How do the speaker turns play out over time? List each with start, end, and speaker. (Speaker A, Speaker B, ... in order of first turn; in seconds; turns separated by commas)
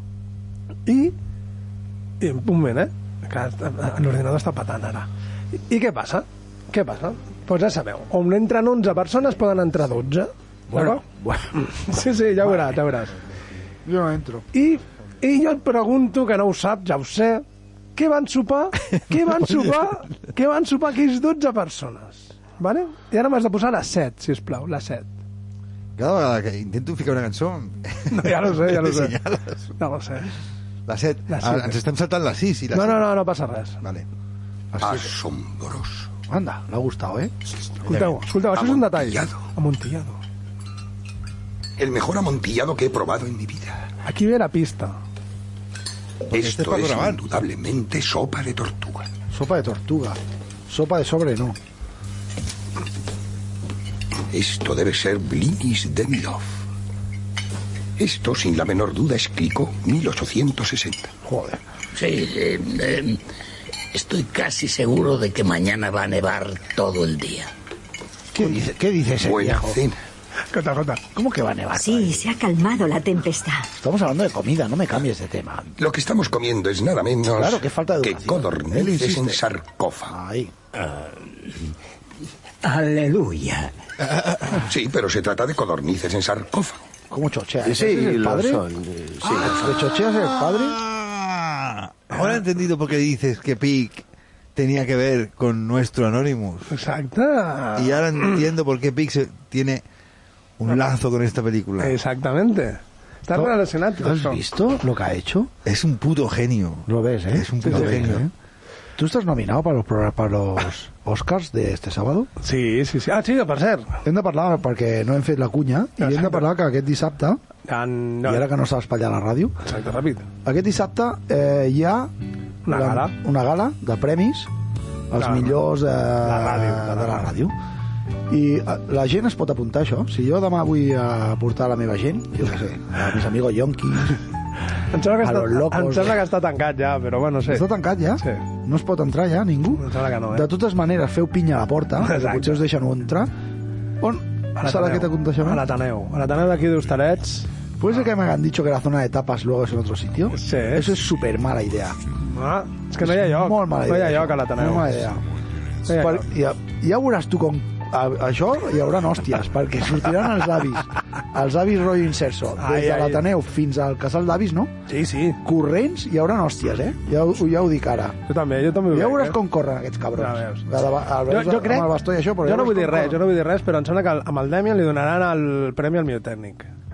Speaker A: 0.8-1.1, Speaker A: 2.2-5.1, Speaker A: 5.6-13.2, Speaker B: 10.7-11.5, Speaker B: 13.8-14.4, Speaker A: 14.5-17.4, Speaker A: 17.9-25.1, Speaker C: 25.9-29.7, Speaker A: 28.1-29.2, Speaker A: 29.8-30.3, Speaker C: 30.9-33.1, Speaker A: 31.3-31.8, Speaker A: 32.7-33.8, Speaker C: 34.7-35.1, Speaker D: 34.8-36.1, Speaker B: 36.3-37.3, Speaker A: 37.8-40.2, Speaker C: 37.9-38.2, Speaker D: 38.5-39.4, Speaker D: 41.8-43.8, Speaker A: 44.0-45.0, Speaker D: 46.3-49.1, Speaker C: 46.3-47.3, Speaker B: 49.3-51.6, Speaker D: 54.3-56.6, Speaker D: 58.0-61.1, Speaker B: 61.2-61.6, Speaker E: 62.0-63.1, Speaker E: 63.9-67.5, Speaker B: 68.3-69.8, Speaker D: 69.2-70.0, Speaker A: 70.5-71.0, Speaker B: 71.1-72.3, Speaker F: 71.7-73.7, Speaker B: 73.8-75.7, Speaker D: 75.8-80.1, Speaker B: 77.3-79.4, Speaker B: 80.0-80.5, Speaker E: 82.6-83.7, Speaker D: 84.6-86.8, Speaker B: 87.1-88.6, Speaker E: 87.7-89.4, Speaker B: 89.3-90.8, Speaker C: 90.4-94.0, Speaker C: 94.5-96.7, Speaker A: 96.7-98.4, Speaker C: 97.8-99.8, Speaker C: 100.6-102.0, Speaker A: 101.8-104.4, Speaker B: 103.3-105.5, Speaker C: 105.6-108.3, Speaker B: 106.8-108.3, Speaker A: 107.6-108.2, Speaker B: 109.0-112.3, Speaker A: 112.4-114.0, Speaker B: 114.0-117.4, Speaker A: 116.0-116.4, Speaker A: 117.7-118.5, Speaker B: 118.2-119.5, Speaker A: 119.6-120.3, Speaker B: 120.4-122.1, Speaker A: 122.7-123.1, Speaker B: 122.7-124.5, Speaker B: 125.1-127.5, Speaker A: 125.2-125.5, Speaker A: 126.2-127.3, Speaker B: 128.3-134.2, Speaker A: 134.9-137.7, Speaker B: 135.2-136.2, Speaker B: 137.5-143.3, Speaker A: 139.8-140.5, Speaker A: 142.0-142.6, Speaker B: 144.0-145.7, Speaker A: 144.6-147.5, Speaker B: 147.8-152.0, Speaker A: 150.3-150.9, Speaker A: 152.2-155.0, Speaker B: 153.0-155.2, Speaker A: 155.8-156.2, Speaker B: 155.9-164.7, Speaker A: 162.6-163.2, Speaker A: 164.9-165.4, Speaker B: 165.4-168.2, Speaker A: 168.3-169.4, Speaker B: 168.8-173.2, Speaker A: 170.2-170.7, Speaker A: 171.3-176.7